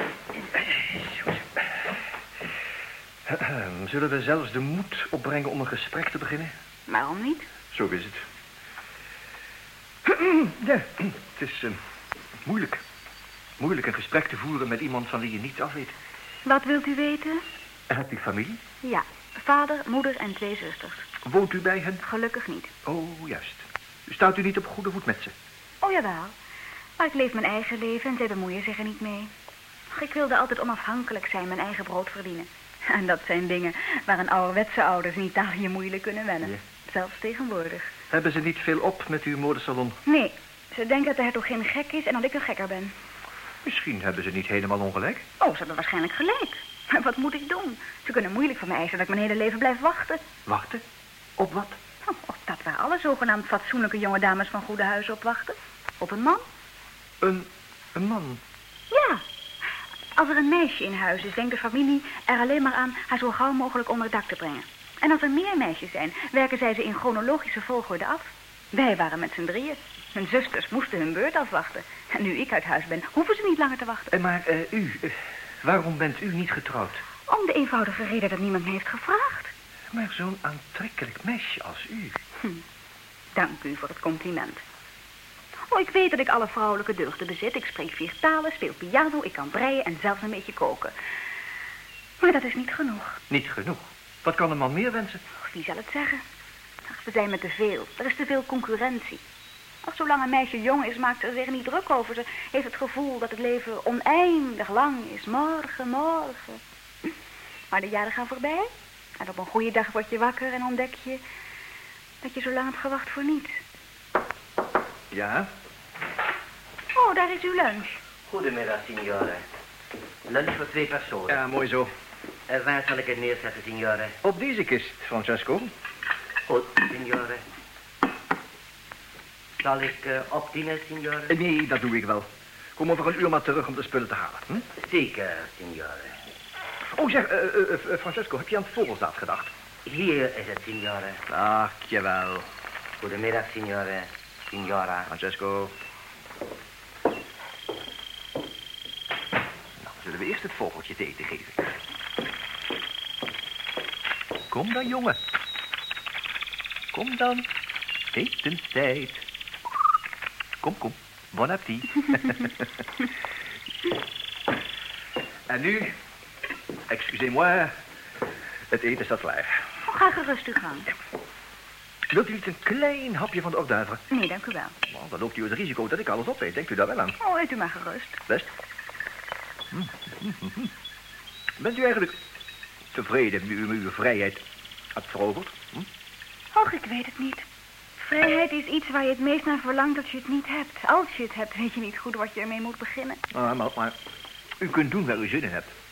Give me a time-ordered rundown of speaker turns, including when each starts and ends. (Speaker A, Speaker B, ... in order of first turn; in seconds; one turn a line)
Speaker A: 0.5-1.7
Speaker A: 3.2-6.5
Speaker B: 6.9-7.5
Speaker A: 7.7-8.2
Speaker A: 10.0-11.8
Speaker A: 12.4-12.8
Speaker A: 13.6-15.9
Speaker B: 16.4-17.4
Speaker A: 17.9-18.6
Speaker B: 18.8-21.1
Speaker A: 21.2-22.0
Speaker B: 22.0-22.7
Speaker A: 22.9-25.3
Speaker B: 25.8-26.3
Speaker B: 27.0-29.3
Speaker B: 29.9-37.9
Speaker A: 38.1-40.0
Speaker B: 40.1-42.9
Speaker A: 43.6-45.2
Speaker B: 45.4-50.2
Speaker A: 50.5-50.8
Speaker A: 51.4-51.8
Speaker B: 52.0-56.4
Speaker A: 57.2-58.4
Speaker B: 58.9-59.2
Speaker B: 60.1-74.1
Speaker A: 74.1-77.0
Speaker B: 77.3-79.5
Speaker A: 79.9-82.2
Speaker B: 83.4-84.6
Speaker B: 85.7-90.9
Speaker B: 92.2-93.2
Speaker A: 93.3-95.2
Speaker B: 95.4-96.2
Speaker B: 96.9-99.2
Speaker B: 99.8-106.6
Speaker B: 107.7-111.2
Speaker B: 112.2-113.6
Speaker A: 115.1-115.5
Speaker B: 116.9-118.0
Speaker C: 118.3-119.4
Speaker C: 120.3-121.4
Speaker A: 121.3-121.9
Speaker C: 122.5-124.2
Speaker A: 124.2-125.7
Speaker C: 126.5-127.4
Speaker C: 129.6-131.3
Speaker A: 131.3-134.7
Speaker C: 134.8-136.2
Speaker A: 136.9-139.5
Speaker C: 139.8-141.2
Speaker A: 141.3-142.5
Speaker C: 143.0-145.1
Speaker A: 145.1-145.7
Speaker A: 149.8-151.6
Speaker A: 154.5-155.2
Speaker A: 156.9-157.5
Speaker A: 158.1-159.2
Speaker A: 160.6-162.7
Speaker A: 165.5-165.9
Speaker A: 166.9-167.7
Speaker A: 168.7-169.6
Speaker B: 169.9-170.9
Speaker A: 172.1-174.0
Speaker B: 174.1-174.7
Speaker A: 174.8-177.2
Speaker B: 177.2-178.2
Speaker A: 179.7-180.7
Speaker A: 181.6-182.2
Speaker A: 182.9-184.4
Speaker A: 184.9-185.9
Speaker B: 186.5-187.4
Speaker B: 188.0-193.2
Speaker A: 193.3-193.9
Speaker A: 194.6-195.7